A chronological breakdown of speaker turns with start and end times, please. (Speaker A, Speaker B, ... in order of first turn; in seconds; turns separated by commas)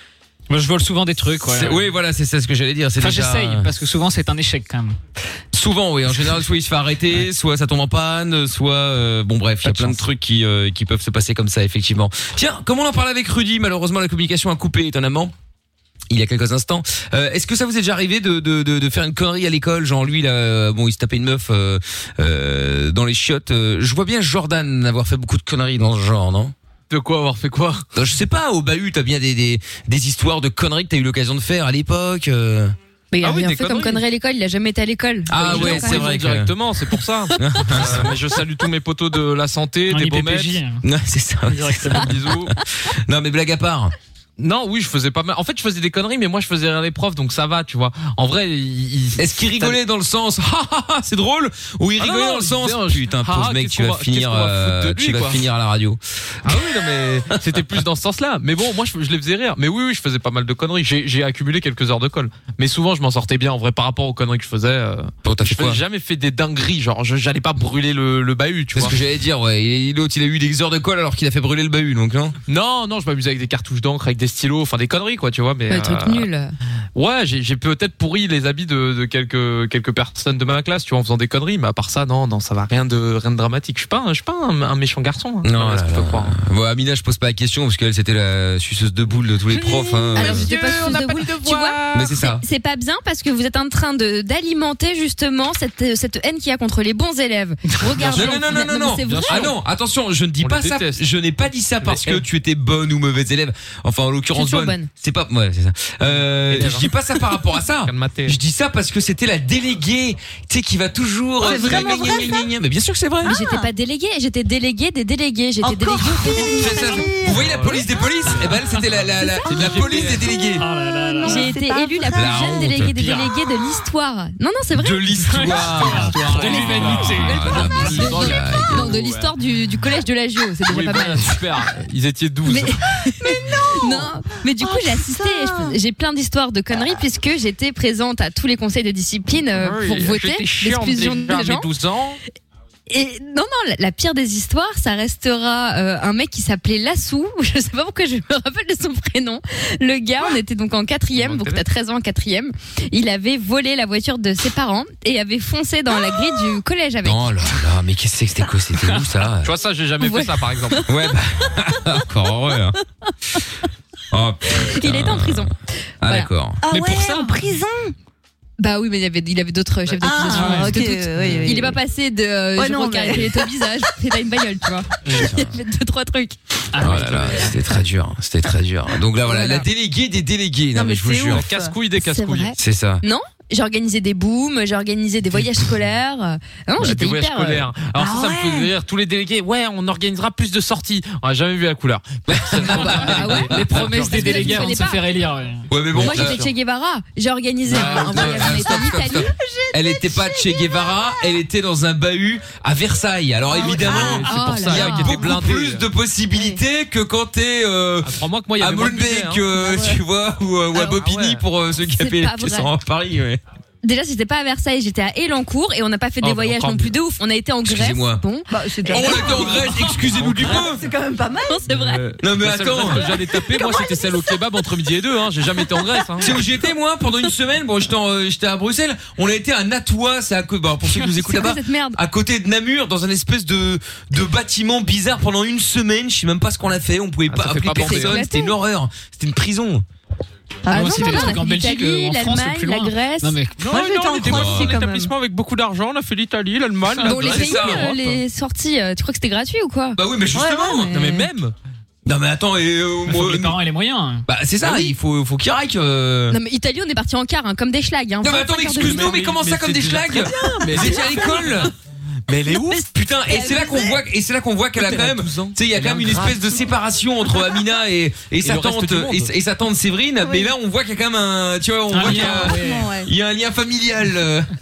Speaker A: 0.5-1.9, Speaker B: 1.4-3.7, Speaker A: 3.0-5.0, Speaker B: 5.5-15.3, Speaker A: 9.7-10.0, Speaker B: 16.1-26.5, Speaker C: 26.9-27.8, Speaker B: 27.9-32.7, Speaker D: 33.1-36.0, Speaker C: 33.2-34.0, Speaker B: 35.3-36.5, Speaker C: 35.3-40.6, Speaker B: 37.4-38.1, Speaker A: 39.9-40.8, Speaker B: 40.8-43.9, Speaker A: 41.5-42.1, Speaker C: 41.9-42.5, Speaker C: 44.4-49.8, Speaker B: 49.2-56.8, Speaker C: 52.0-55.5, Speaker C: 56.5-69.0, Speaker B: 65.2-65.8, Speaker B: 68.7-72.4, Speaker C: 72.5-76.3, Speaker D: 75.7-76.5, Speaker C: 76.9-86.4, Speaker B: 85.4-90.5, Speaker C: 90.1-92.0, Speaker D: 90.1-99.5, Speaker B: 91.9-92.4, Speaker A: 97.8-98.2, Speaker B: 98.1-113.3, Speaker C: 99.0-99.5, Speaker C: 100.4-101.0, Speaker C: 101.8-102.1, Speaker D: 104.3-104.9, Speaker C: 106.5-106.9, Speaker C: 107.8-108.4, Speaker E: 111.4-112.4, Speaker D: 111.4-112.2, Speaker E: 113.2-113.7, Speaker D: 113.2-117.1, Speaker E: 115.6-117.5, Speaker B: 116.5-120.6, Speaker C: 117.4-118.6, Speaker C: 119.4-120.3, Speaker E: 120.2-122.6, Speaker A: 120.5-121.5, Speaker D: 121.2-125.2, Speaker B: 122.1-122.9, Speaker A: 122.9-123.3, Speaker B: 124.7-128.9, Speaker A: 125.2-127.5, Speaker C: 126.0-129.3, Speaker D: 126.3-131.4, Speaker C: 130.7-132.8, Speaker D: 132.4-141.7, Speaker E: 133.2-134.1, Speaker E: 134.6-135.7, Speaker C: 139.5-142.2, Speaker D: 142.9-157.4, Speaker C: 151.1-151.6, Speaker B: 157.0-159.5, Speaker C: 159.4-160.8, Speaker D: 160.0-160.8, Speaker B: 160.8-162.8, Speaker B: 164.1-165.5, Speaker D: 164.6-165.5, Speaker B: 166.0-166.6, Speaker D: 166.0-166.3, Speaker E: 166.6-167.9, Speaker A: 166.7-167.4, Speaker D: 168.6-176.4, Speaker E: 170.0-171.8, Speaker A: 170.3-170.8, Speaker C: 171.2-171.4, Speaker E: 172.6-173.5, Speaker B: 175.1-175.5, Speaker A: 176.7-177.5, Speaker B: 176.8-181.5, Speaker E: 179.3-179.6, Speaker E: 180.7-181.8, Speaker C: 181.2-182.5, Speaker D: 182.0-187.7, Speaker B: 182.6-183.0, Speaker C: 186.8-194.8, Speaker E: 188.0-188.7, Speaker B: 192.3-193.4, Speaker D: 192.8-195.0, Speaker A: 193.4-195.7, Speaker B: 195.7-196.4, Speaker C: 195.9-196.5, Speaker D: 196.0-199.3, Speaker C: 197.7-198.5, Speaker B: 197.7-213.4, Speaker E: 198.6-201.3, Speaker E: 203.5-204.2, Speaker D: 203.6-205.2, Speaker C: 203.8-205.8, Speaker C: 208.0-209.5, Speaker E: 209.6-210.0, Speaker C: 210.7-211.4, Speaker D: 211.9-212.7, Speaker D: 213.8-219.6, Speaker C: 216.2-216.9, Speaker B: 217.6-218.2, Speaker E: 218.5-221.6, Speaker B: 218.9-220.8, Speaker C: 220.2-220.6, Speaker D: 221.5-222.0, Speaker C: 221.7-226.3, Speaker B: 222.2-223.1, Speaker D: 223.3-224.3, Speaker B: 226.2-239.8, Speaker D: 231.1-232.0, Speaker C: 237.3-238.2, Speaker D: 237.8-238.5, Speaker E: 240.7-241.4, Speaker D: 240.7-243.4, Speaker A: 240.7-243.7, Speaker C: 243.6-248.2, Speaker E: 243.7-245.1, Speaker B: 244.2-244.7, Speaker D: 247.0-250.0, Speaker B: 247.2-247.9, Speaker B: 249.9-250.9, Speaker E: 250.3-251.3, Speaker C: 250.8-251.5, Speaker B: 252.1-253.6, Speaker A: 253.1-254.3, Speaker B: 254.3-256.4, Speaker D: 256.3-259.2, Speaker B: 258.2-261.7, Speaker C: 258.8-261.7, Speaker E: 260.4-261.2, Speaker C: 262.3-262.9, Speaker B: 262.9-274.5, Speaker D: 263.3-264.0, Speaker C: 264.8-266.5, Speaker C: 268.4-269.3, Speaker A: 271.9-272.9, Speaker E: 272.0-273.1